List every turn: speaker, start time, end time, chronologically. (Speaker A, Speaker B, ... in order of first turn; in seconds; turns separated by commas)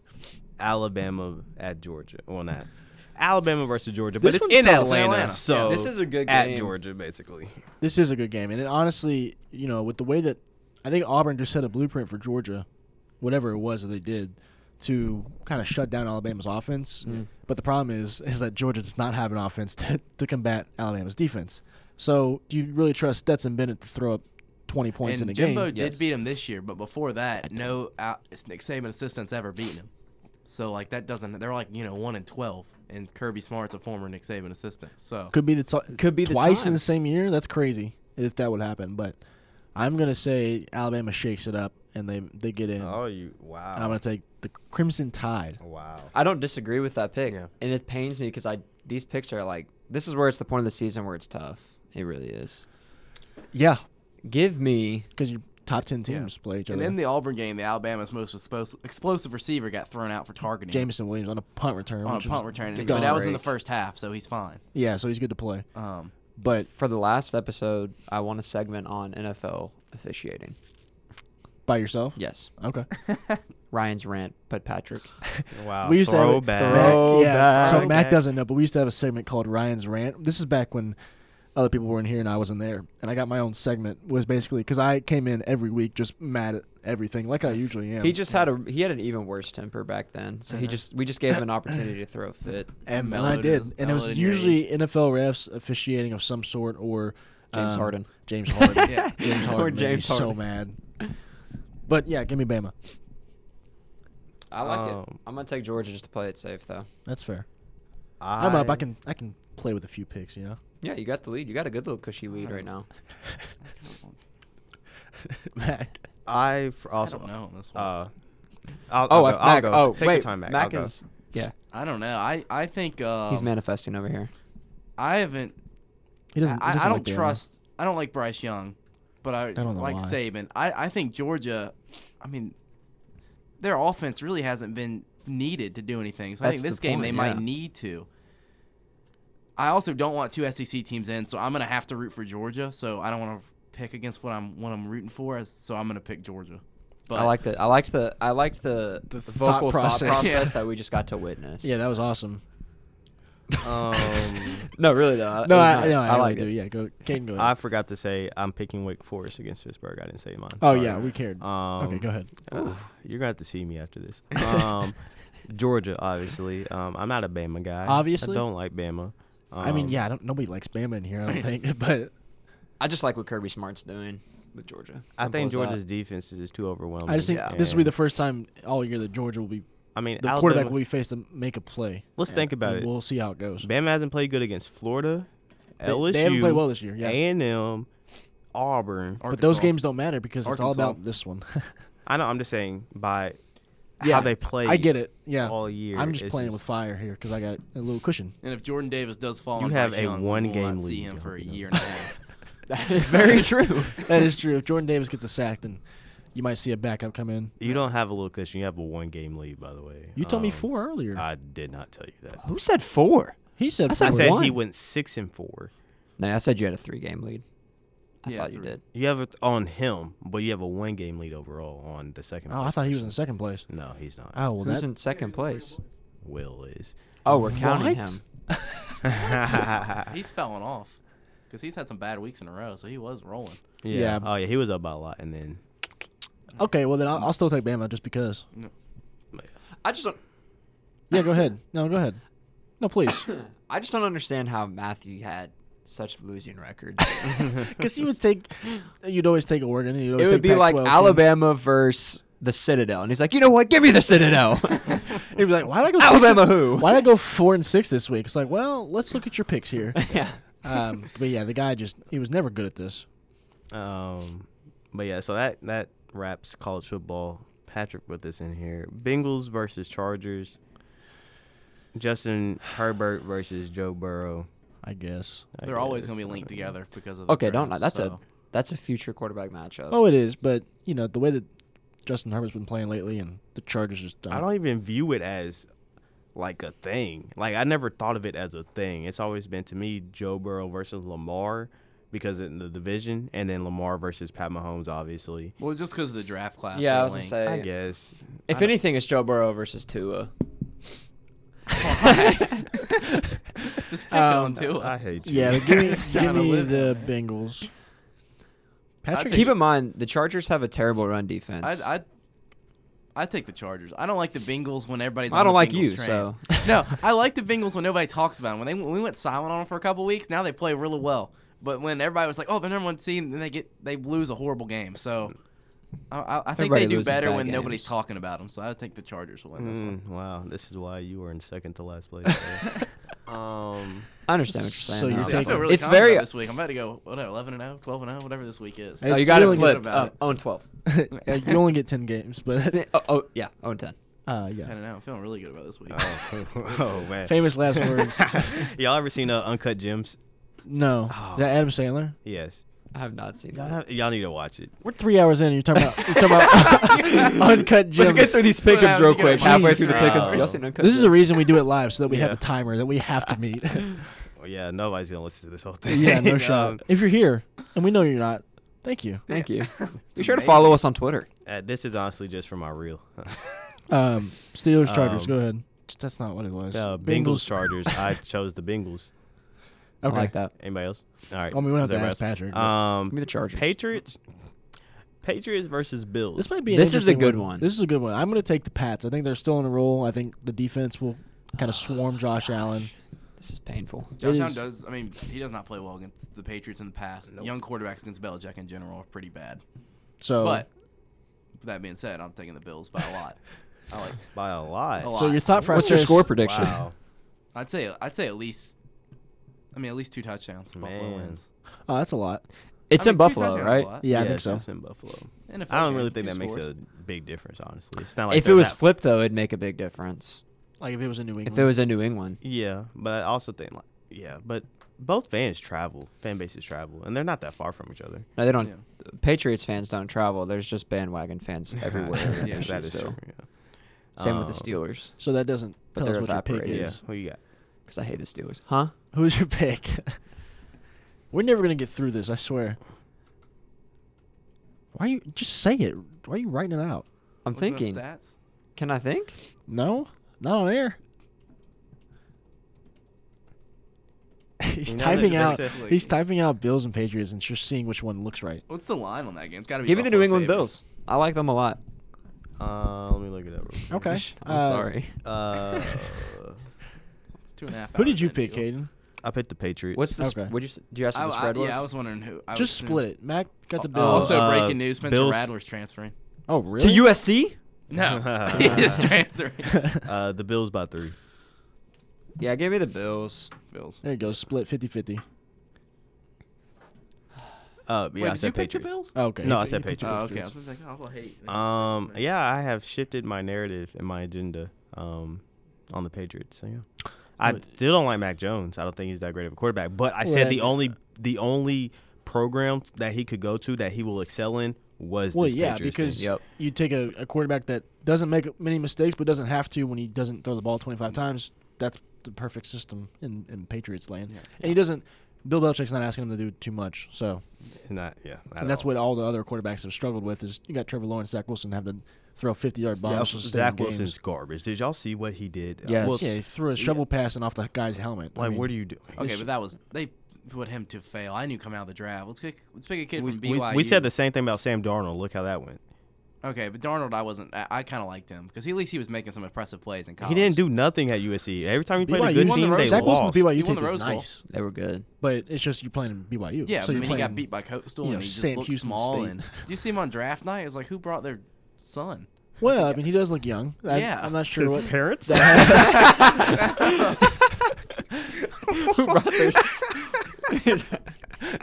Speaker A: 0.6-7.6, Speaker B: 4.2-4.9, Speaker C: 4.2-5.9, Speaker D: 5.6-6.7, Speaker B: 7.8-12.7, Speaker B: 13.2-25.7, Speaker C: 25.0-29.9, Speaker D: 25.7-26.1, Speaker C: 30.5-35.3, Speaker B: 35.3-39.2, Speaker D: 35.9-36.8, Speaker B: 39.8-43.0, Speaker A: 42.8-44.0, Speaker B: 43.8-45.6, Speaker A: 45.6-46.1, Speaker D: 46.1-52.7, Speaker B: 53.5-53.8, Speaker D: 54.2-55.1, Speaker B: 55.2-57.0, Speaker C: 56.1-60.9, Speaker B: 60.7-63.4, Speaker C: 62.0-64.6, Speaker D: 62.7-63.5, Speaker B: 64.7-65.7, Speaker C: 65.8-66.1, Speaker B: 66.4-66.7, Speaker D: 66.7-70.6, Speaker B: 71.7-72.9, Speaker D: 72.2-72.5, Speaker D: 73.7-75.1, Speaker B: 75.4-81.0, Speaker A: 75.5-78.2, Speaker D: 76.6-78.0, Speaker B: 81.5-88.2, Speaker D: 88.0-92.7, Speaker B: 92.9-100.8, Speaker C: 92.9-94.6, Speaker D: 97.5-100.4, Speaker C: 98.8-99.2, Speaker B: 101.9-102.8, Speaker D: 104.5-106.9, Speaker A: 104.6-105.2, Speaker B: 107.1-107.5, Speaker A: 108.2-108.8, Speaker B: 108.4-110.6, Speaker D: 110.8-112.9, Speaker C: 113.7-114.1, Speaker B: 115.5-115.9, Speaker A: 116.3-118.1, Speaker C: 117.0-117.9, Speaker A: 118.9-120.9, Speaker D: 119.1-121.5, Speaker C: 121.7-123.5, Speaker D: 123.3-124.3, Speaker C: 125.0-125.6, Speaker B: 126.3-127.4, Speaker C: 126.4-132.6, Speaker B: 129.6-130.2, Speaker C: 133.6-138.1, Speaker D: 136.4-137.4, Speaker C: 139.6-147.3, Speaker D: 147.1-151.8, Speaker B: 149.1-150.5, Speaker C: 150.0-150.6, Speaker B: 151.6-152.4, Speaker A: 153.6-154.7, Speaker D: 154.7-156.5, Speaker B: 155.4-157.5, Speaker A: 157.4-170.0, Speaker B: 160.6-162.3, Speaker D: 162.5-162.8, Speaker B: 167.8-168.4, Speaker B: 169.6-172.1, Speaker D: 172.8-175.8, Speaker A: 175.2-177.9, Speaker B: 177.1-179.7, Speaker A: 179.9-180.8, Speaker B: 180.2-183.7, Speaker A: 182.2-182.9, Speaker A: 183.6-187.9, Speaker B: 185.8-187.2, Speaker A: 188.5-189.2, Speaker C: 189.2-189.7, Speaker B: 189.3-191.7, Speaker C: 190.4-191.0, Speaker A: 192.1-193.4, Speaker A: 194.0-196.6, Speaker B: 194.0-198.3, Speaker C: 198.4-202.1, Speaker A: 199.6-201.9, Speaker D: 202.7-204.0, Speaker B: 204.0-205.8, Speaker B: 206.3-207.5, Speaker A: 207.6-212.4, Speaker B: 210.2-211.2, Speaker D: 212.4-214.6, Speaker B: 213.6-214.5, Speaker A: 214.0-215.7, Speaker D: 216.2-217.4, Speaker D: 218.2-218.8, Speaker C: 218.3-218.8, Speaker A: 218.9-223.2, Speaker B: 222.5-223.7, Speaker A: 223.7-224.4, Speaker B: 224.3-224.9, Speaker D: 224.6-225.8, Speaker A: 226.2-226.9, Speaker D: 227.2-228.2, Speaker B: 227.5-229.6, Speaker A: 229.1-230.1, Speaker C: 229.3-231.0, Speaker C: 231.5-233.6, Speaker A: 233.8-235.6, Speaker B: 233.9-234.3, Speaker B: 236.6-238.4, Speaker D: 239.8-240.2, Speaker B: 241.1-242.2, Speaker B: 242.8-243.3, Speaker D: 243.3-247.5, Speaker B: 247.1-251.3, Speaker D: 250.2-255.2, Speaker B: 255.1-263.1, Speaker D: 256.0-257.1, Speaker D: 260.0-260.4, Speaker A: 263.7-270.6, Speaker A: 271.9-274.5, Speaker B: 274.8-275.5, Speaker A: 275.6-276.7, Speaker C: 275.6-278.2, Speaker D: 277.3-280.0, Speaker B: 279.9-281.5, Speaker B: 282.0-284.5, Speaker A: 284.3-285.7, Speaker A: 286.4-295.6, Speaker C: 295.6-297.4, Speaker D: 296.7-297.7, Speaker A: 297.4-298.7, Speaker D: 298.5-300.3, Speaker C: 301.8-302.6, Speaker D: 301.8-302.6, Speaker B: 303.8-304.7, Speaker C: 303.9-307.1, Speaker A: 304.8-306.3, Speaker B: 305.2-307.7, Speaker B: 309.0-309.6, Speaker C: 309.1-309.6, Speaker D: 309.3-311.9, Speaker C: 311.6-312.1, Speaker C: 313.1-325.4, Speaker D: 315.3-316.4, Speaker C: 326.1-329.9, Speaker D: 326.6-327.9, Speaker A: 329.6-334.1, Speaker B: 332.3-332.7, Speaker D: 334.3-336.3, Speaker B: 334.5-335.8, Speaker C: 335.2-340.4, Speaker B: 339.0-340.1, Speaker D: 339.1-340.7, Speaker B: 340.8-342.9, Speaker D: 342.7-344.0, Speaker B: 344.3-344.8, Speaker C: 344.6-346.3, Speaker A: 345.9-350.2, Speaker B: 347.2-348.7, Speaker B: 350.6-352.2, Speaker A: 351.1-351.6, Speaker A: 352.2-352.6, Speaker D: 352.9-353.8, Speaker A: 353.5-354.7, Speaker B: 354.8-358.6, Speaker D: 356.0-361.5, Speaker C: 358.5-360.6, Speaker B: 359.3-364.1, Speaker A: 359.9-360.6, Speaker A: 362.1-362.4, Speaker A: 364.4-366.8, Speaker B: 365.9-369.2, Speaker D: 369.3-371.3, Speaker C: 369.3-370.8, Speaker A: 371.5-373.8, Speaker B: 373.9-378.1, Speaker A: 374.8-375.4, Speaker A: 376.7-379.1, Speaker B: 380.0-380.3, Speaker D: 380.1-380.5, Speaker A: 380.5-384.2, Speaker B: 381.5-382.7, Speaker D: 383.1-383.7, Speaker A: 385.2-386.6, Speaker B: 386.4-392.9, Speaker D: 386.7-387.7, Speaker D: 391.6-394.1, Speaker B: 394.2-394.6, Speaker C: 394.2-399.6, Speaker B: 400.2-400.7, Speaker C: 400.4-400.7, Speaker C: 401.6-404.2, Speaker A: 404.3-405.4, Speaker C: 405.0-406.0, Speaker B: 405.1-406.3, Speaker D: 405.7-406.9, Speaker A: 406.0-406.9, Speaker C: 407.5-408.7, Speaker C: 409.7-411.4, Speaker A: 410.8-411.4, Speaker B: 411.9-412.4, Speaker D: 412.9-414.0, Speaker C: 413.0-414.2, Speaker B: 414.0-414.6, Speaker A: 414.1-418.8, Speaker C: 415.5-416.7, Speaker D: 418.3-420.4, Speaker B: 420.8-421.7, Speaker D: 421.5-422.4, Speaker A: 422.4-428.3, Speaker D: 428.4-433.2, Speaker A: 431.9-433.5, Speaker C: 432.4-432.7, Speaker A: 434.2-434.7, Speaker D: 434.2-435.1, Speaker B: 435.2-437.0, Speaker D: 435.9-436.9, Speaker A: 436.7-437.4, Speaker D: 437.9-438.9, Speaker B: 439.1-440.2, Speaker B: 441.3-442.8, Speaker B: 444.9-447.1, Speaker D: 447.4-448.0, Speaker C: 447.5-448.3, Speaker D: 448.8-449.4, Speaker B: 449.7-451.0, Speaker B: 454.6-458.6, Speaker A: 454.9-455.7, Speaker C: 455.0-456.1, Speaker C: 458.7-460.7, Speaker D: 459.9-461.8, Speaker A: 462.6-464.2, Speaker B: 463.9-464.9, Speaker D: 464.0-466.0, Speaker A: 465.2-466.6, Speaker C: 467.6-468.6, Speaker B: 467.9-468.9, Speaker A: 469.2-470.0, Speaker D: 469.9-471.9, Speaker B: 470.2-470.5, Speaker C: 471.1-473.0, Speaker B: 472.5-474.6, Speaker C: 473.8-476.1, Speaker A: 473.9-475.5, Speaker B: 476.5-477.1, Speaker D: 476.8-477.6, Speaker C: 477.9-479.9, Speaker A: 477.9-479.1, Speaker A: 480.1-481.2, Speaker D: 482.4-483.5, Speaker C: 483.7-484.0, Speaker B: 484.0-485.2, Speaker A: 487.9-490.2, Speaker C: 488.2-489.1, Speaker B: 489.2-490.5, Speaker C: 490.0-492.2, Speaker A: 491.5-496.9, Speaker A: 497.4-506.3, Speaker B: 500.2-500.8, Speaker B: 505.3-517.4, Speaker D: 506.2-506.4, Speaker A: 517.9-518.9, Speaker B: 518.6-524.2, Speaker A: 523.0-526.3, Speaker D: 525.9-526.3, Speaker B: 526.1-528.7, Speaker A: 528.4-529.3, Speaker C: 529.2-534.1, Speaker A: 533.2-535.8, Speaker C: 536.4-540.6, Speaker A: 540.2-543.5, Speaker B: 542.0-544.4, Speaker C: 542.2-544.3, Speaker D: 544.5-545.1, Speaker B: 545.2-547.5, Speaker C: 546.7-552.3, Speaker B: 548.0-549.5, Speaker B: 552.6-556.5, Speaker C: 553.9-554.4, Speaker A: 554.5-556.8, Speaker D: 555.8-556.6, Speaker D: 558.7-559.9, Speaker D: 560.5-561.1